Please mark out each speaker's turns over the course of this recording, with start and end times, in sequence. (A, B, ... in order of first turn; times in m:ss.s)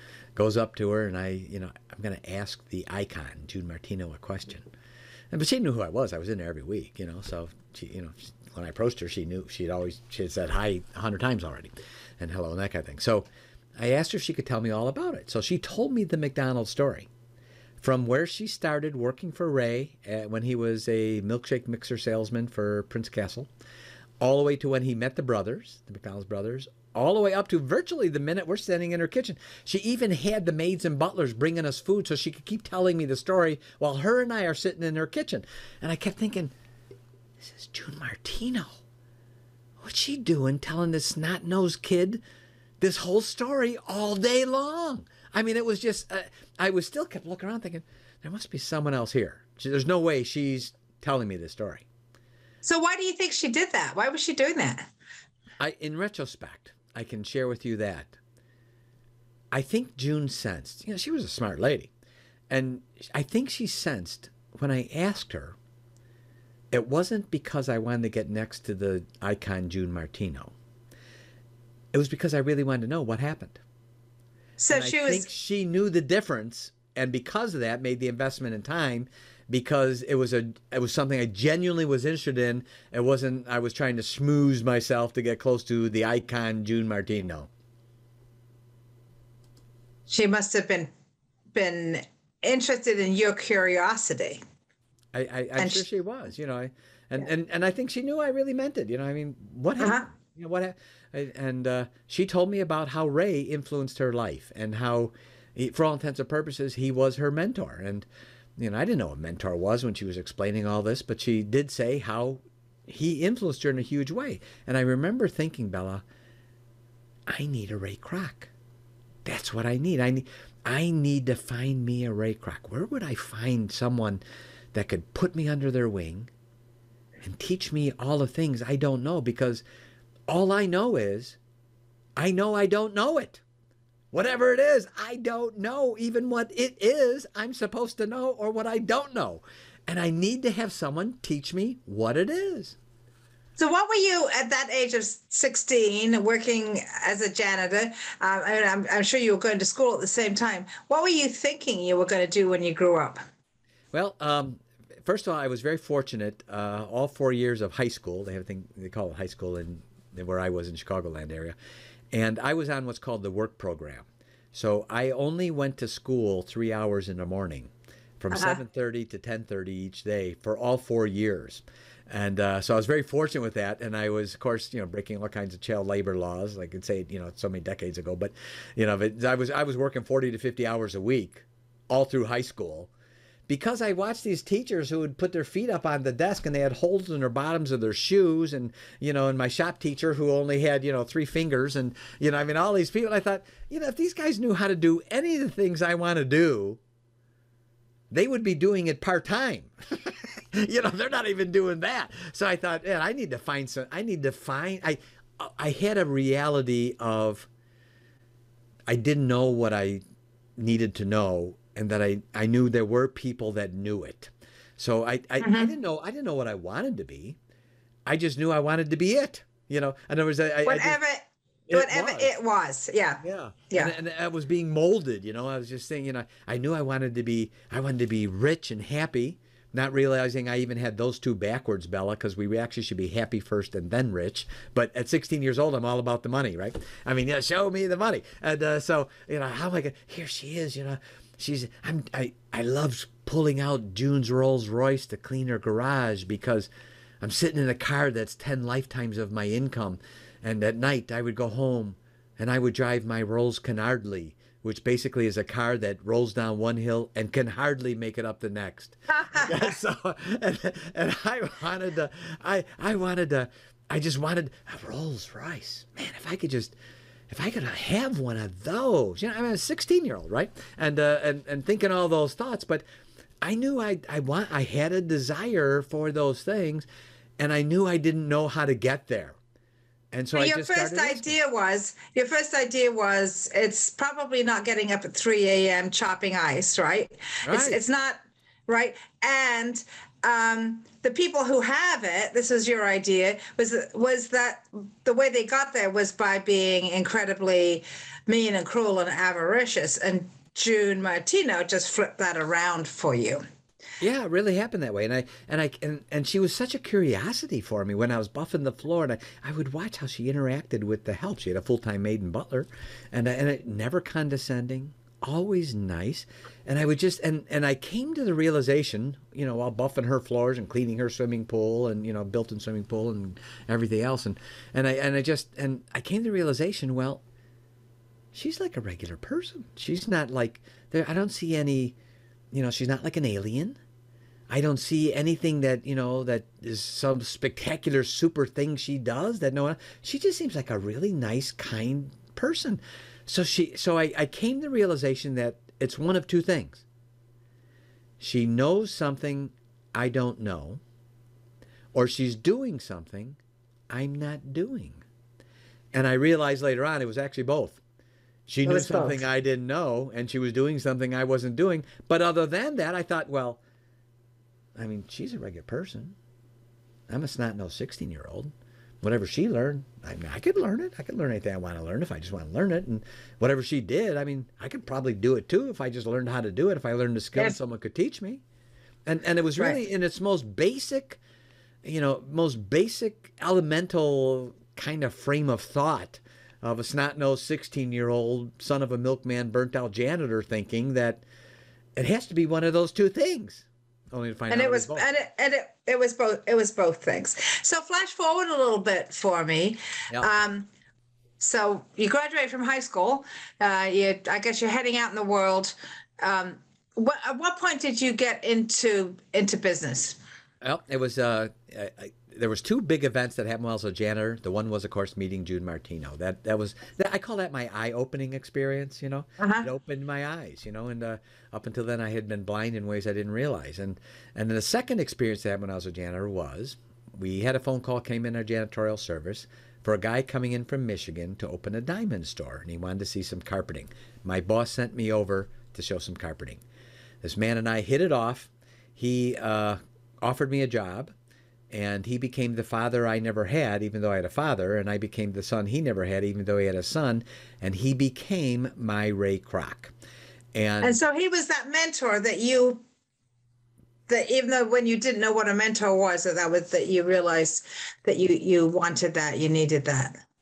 0:00.4-0:04.7 A
0:05.3-0:13.3 A
0:13.8-0:17.1 A
0:17.8-0:23.5 A
0:24.2-0:36.5 A
0:37.4-0:38.8 A
0:39.8-0:42.2 A
0:42.8-0:51.9 A
0:52.6-0:54.9 B
0:55.6-0:58.2 A
0:59.5-1:01.9 A
1:02.5-1:05.6 A
1:06.7-1:10.5 A
1:11.9-1:13.6 A
1:14.6-1:15.2 B
1:14.7-1:27.5 A
1:30.1-1:30.9 B
1:31.5-1:34.4 B
1:35.1-1:48.1 A
1:35.6-1:35.8 B
1:39.8-1:40.0 B
1:48.6-1:56.0 A
1:57.3-1:58.5 A
1:59.2-2:04.2 A
2:04.7-2:06.3 A
2:07.2-2:09.6 A
2:10.3-2:11.4 A
2:12.2-2:13.4 A
2:14.1-2:22.8 A
2:23.6-2:33.2 B
2:33.9-2:41.6 A
2:42.1-3:02.9 A
2:48.3-2:48.6 B
3:03.5-3:16.8 A
3:18.1-3:27.5 A
3:28.9-3:30.0 A
3:30.6-3:37.4 A
3:35.4-3:35.7 B
3:38.0-3:41.0 A
3:40.6-3:43.9 B
3:41.7-3:42.3 A
3:43.2-4:06.7 A
4:07.2-4:26.8 A
4:19.2-4:19.7 B
4:27.3-4:32.8 A
4:33.4-4:36.9 A
4:37.4-4:39.4 A
4:40.1-4:41.3 A
4:40.4-5:03.4 B
4:47.4-4:47.8 A
5:04.0-5:27.2 A
5:28.3-5:32.0 A
5:32.5-5:33.8 A
5:34.5-5:46.8 A
5:48.2-5:50.8 A
5:51.9-5:53.4 A
5:53.9-5:55.0 A
5:55.9-5:57.8 A
5:58.5-6:03.6 A
5:58.6-5:59.2 B
6:04.8-6:06.2 A
6:07.1-6:18.4 A
6:19.0-6:21.2 A
6:21.8-6:31.2 A
6:32.0-6:35.1 A
6:34.5-6:40.7 B
6:41.4-6:50.2 B
6:50.6-7:16.6 A
6:59.4-6:59.7 B
7:17.2-7:21.1 A
7:21.7-7:29.9 A
7:30.6-7:31.0 A
7:30.8-7:32.8 B
7:34.1-7:40.2 B